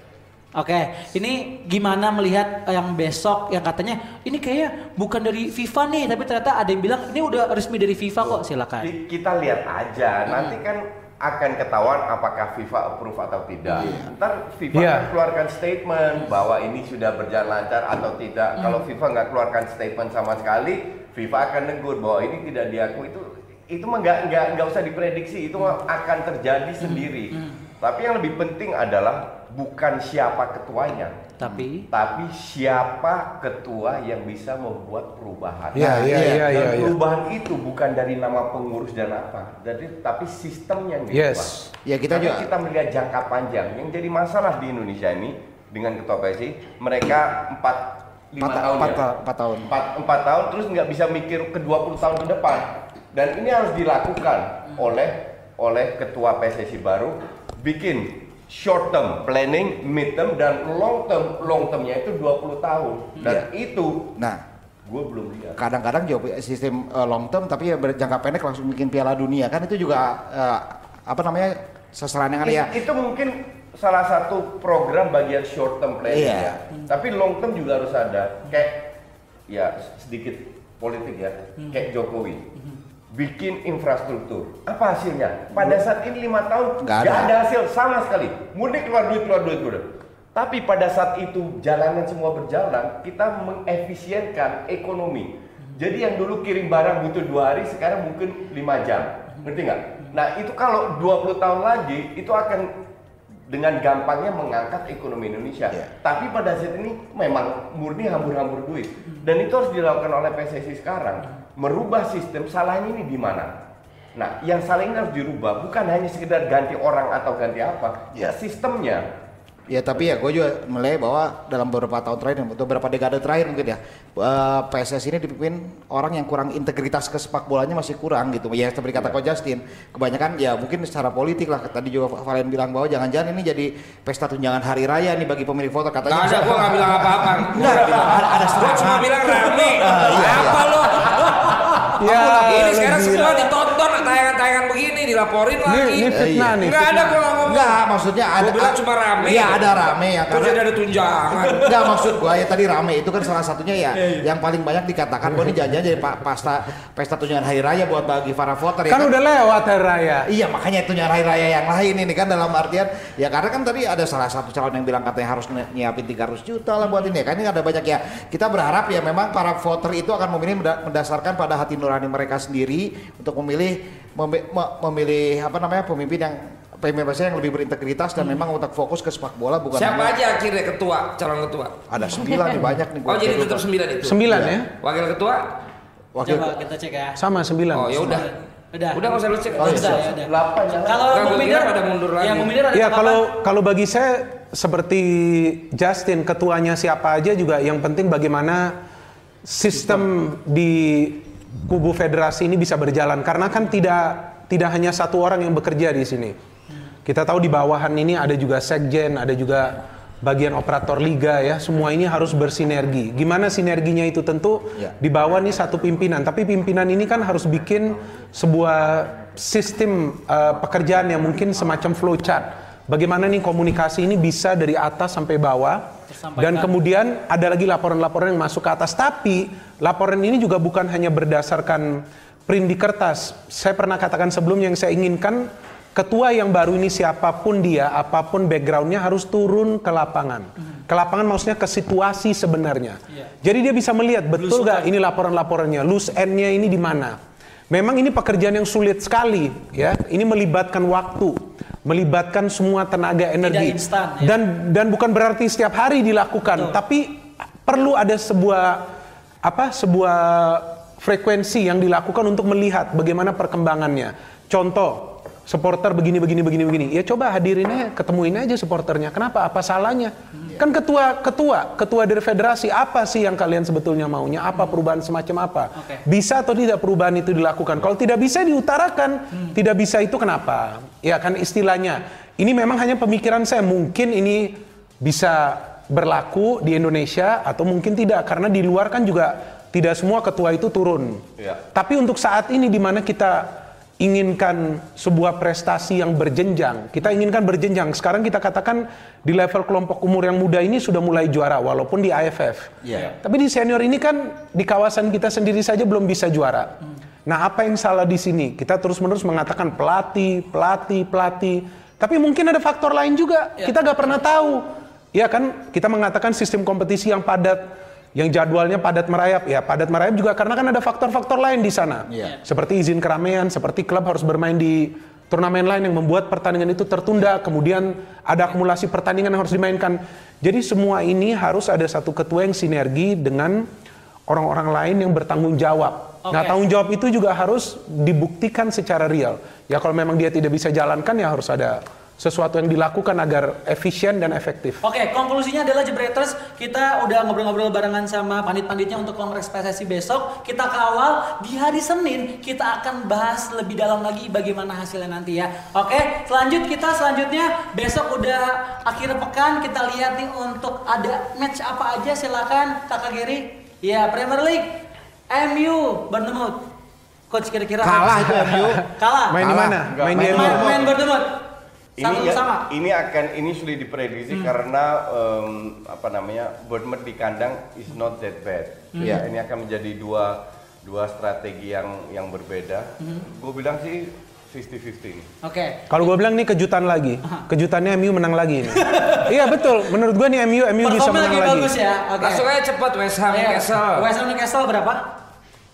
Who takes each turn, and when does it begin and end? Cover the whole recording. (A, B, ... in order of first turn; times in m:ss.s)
0:00.6-0:08.9 A
0:08.2-0:31.4 B
0:13.7-0:14.0 A
0:13.8-0:14.1 C
0:14.7-0:15.1 D
0:18.6-0:18.8 A
0:26.8-0:27.6 A
0:31.4-0:31.9 A
0:31.9-0:41.5 B
0:35.7-0:37.0 D
0:35.8-0:36.5 C
0:41.1-0:41.7 D
0:41.8-0:42.5 C
0:42.1-0:49.0 B
0:48.4-0:49.7 C
0:49.7-1:04.1 B
1:04.2-1:04.4 C
1:04.8-1:05.6 B
1:05.6-1:12.8 C
1:12.4-1:18.9 B
1:16.1-1:16.6 C
1:19.5-1:22.4 B
1:23.1-1:42.7 B
1:26.8-1:27.3 C
1:43.5-1:53.5 B
1:54.1-1:59.0 B
1:59.7-2:20.7 C
2:16.0-2:21.4 E
2:22.0-2:23.4 D
2:22.0-2:22.6 C
2:22.1-2:27.8 E
2:25.6-2:27.2 D
2:26.1-2:26.6 C
2:27.4-2:30.6 C
2:28.4-2:31.8 E
2:31.6-2:39.1 C
2:38.9-2:40.3 D
2:40.3-3:00.2 C
2:59.7-3:01.8 E
3:01.9-3:03.7 C
3:03.0-3:05.4 E
3:04.0-3:04.7 D
3:04.2-3:04.5 C
3:06.1-3:06.5 C
3:06.2-3:07.2 A
3:07.2-3:08.2 D
3:07.7-3:08.3 E
3:08.0-3:09.0 A
3:08.9-3:10.0 E
3:09.6-3:10.1 C
3:09.6-3:13.2 A
3:10.2-3:11.2 B
3:11.1-3:12.5 E
3:12.7-3:18.7 D
3:19.4-3:26.4 D
3:27.0-3:45.8 D
3:46.1-3:46.7 A
3:46.4-4:07.2 D
4:04.3-4:04.9 A
4:07.7-4:18.8 D
4:13.4-4:14.3 A
4:16.5-4:16.8 A
4:19.4-5:06.7 D
4:35.8-4:36.0 A
4:51.4-4:51.6 B
5:07.2-5:33.7 D
5:22.1-5:22.3 C
5:34.3-5:44.8 D
5:36.2-5:36.6 A
5:44.8-6:06.6 A
6:07.3-6:08.2 A
6:07.8-6:08.8 C
6:08.3-6:10.8 D
6:09.0-6:09.4 A
6:09.4-6:10.6 C
6:09.9-6:10.9 B
6:10.3-6:11.4 A
6:12.0-6:25.3 B
6:12.0-6:12.7 A
6:18.9-6:19.2 A
6:23.0-6:23.3 A
6:25.4-6:25.8 A
6:25.9-6:31.7 D
6:28.7-6:29.3 A
6:30.8-6:32.4 A
6:32.2-6:34.0 E
6:33.3-6:35.0 A